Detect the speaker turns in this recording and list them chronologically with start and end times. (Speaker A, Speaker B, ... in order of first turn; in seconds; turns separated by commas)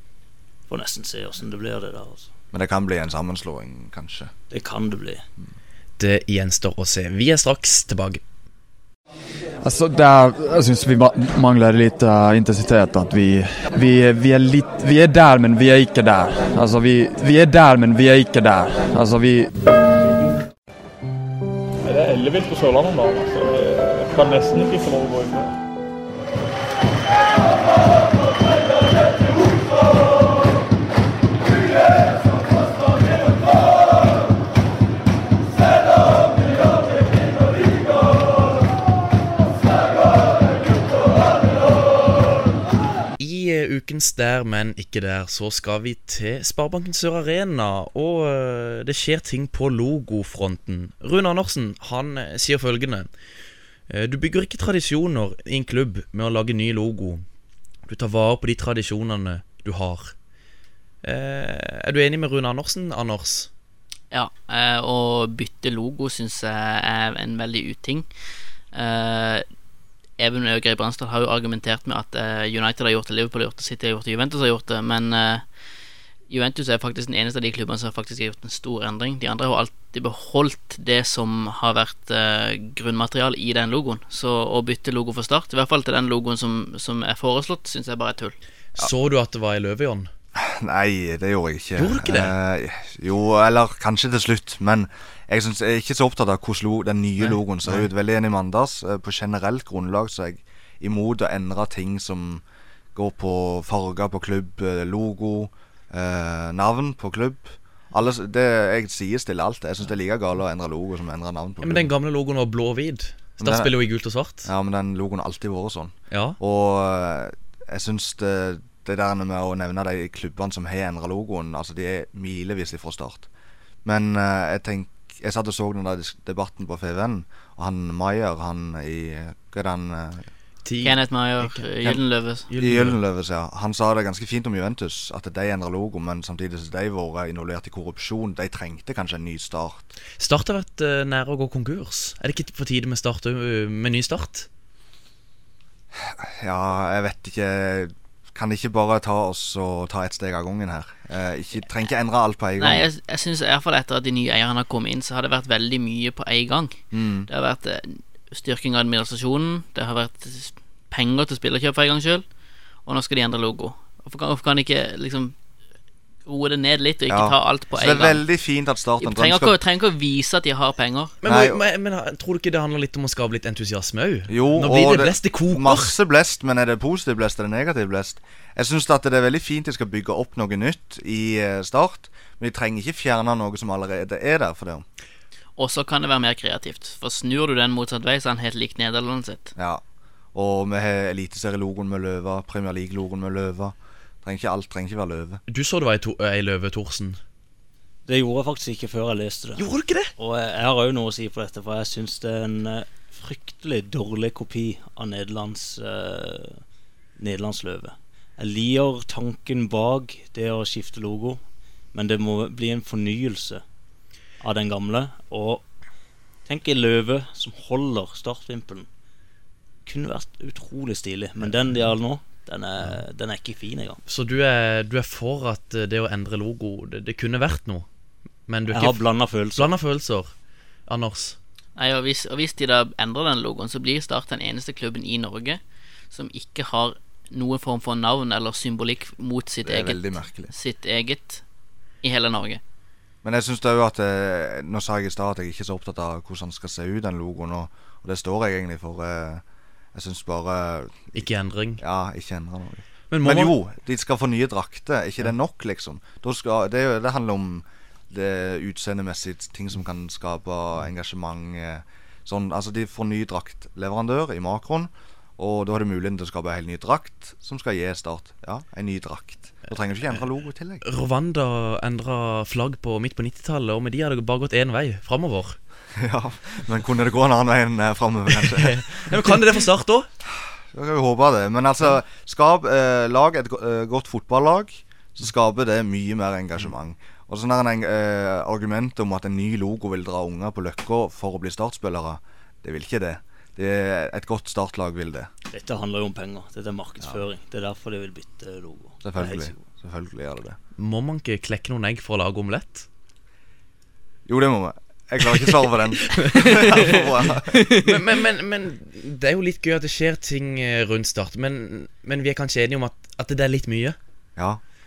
Speaker A: 0.7-2.3, Speaker B: 2.5-4.3, Speaker A: 4.5-5.2, Speaker C: 6.0-8.2, Speaker D: 9.6-19.5, Speaker E: 21.9-25.6, Speaker C: 43.2-53.1, Speaker C: 53.9-57.2, Speaker C: 57.9-60.1, Speaker C: 61.0-63.5, Speaker F: 64.1-68.1, Speaker F: 68.7-69.5, Speaker F: 70.2-75.5, Speaker F: 76.3-88.4, Speaker C: 88.8-90.1, Speaker B: 90.4-102.4, Speaker C: 91.8-92.3, Speaker C: 97.2-97.9, Speaker B: 103.0-111.9, Speaker C: 111.6-114.5, Speaker B: 113.4-113.7, Speaker B: 114.5-123.3, Speaker C: 116.1-116.4, Speaker B: 123.8-130.3, Speaker C: 130.7-131.7, Speaker F: 130.8-132.5, Speaker C: 132.5-133.0, Speaker B: 132.6-139.9, Speaker C: 140.2-144.5, Speaker B: 145.9-152.9, Speaker F: 152.6-162.2, Speaker B: 156.9-157.3, Speaker F: 162.9-165.3, Speaker F: 166.3-168.2, Speaker B: 167.1-169.6, Speaker F: 169.0-171.2, Speaker C: 171.2-175.9, Speaker B: 171.2-171.6, Speaker B: 174.3-184.8, Speaker F: 185.6-189.5, Speaker B: 189.6-189.8, Speaker B: 190.3-195.4, Speaker C: 195.5-197.2, Speaker A: 198.1-199.7, Speaker C: 199.6-200.1, Speaker A: 200.2-206.6, Speaker A: 207.2-211.4, Speaker A: 211.9-213.6, Speaker A: 214.4-215.6, Speaker A: 216.5-218.9, Speaker A: 219.9-224.0, Speaker C: 224.1-227.9, Speaker C: 228.5-229.0, Speaker A: 228.7-229.7, Speaker C: 229.6-230.3, Speaker C: 230.9-231.4, Speaker F: 231.8-241.4, Speaker B: 239.6-240.5, Speaker F: 242.0-242.6, Speaker B: 243.2-249.4, Speaker B: 249.9-251.3, Speaker C: 251.2-251.8, Speaker B: 251.8-270.8, Speaker C: 253.1-253.6, Speaker C: 270.8-275.6, Speaker B: 276.0-279.4, Speaker C: 278.4-280.1, Speaker B: 280.7-295.3, Speaker A: 295.5-299.6, Speaker B: 299.0-300.6, Speaker C: 300.8-302.9, Speaker B: 304.3-307.6, Speaker C: 306.1-306.6, Speaker F: 306.3-308.0, Speaker C: 307.7-314.0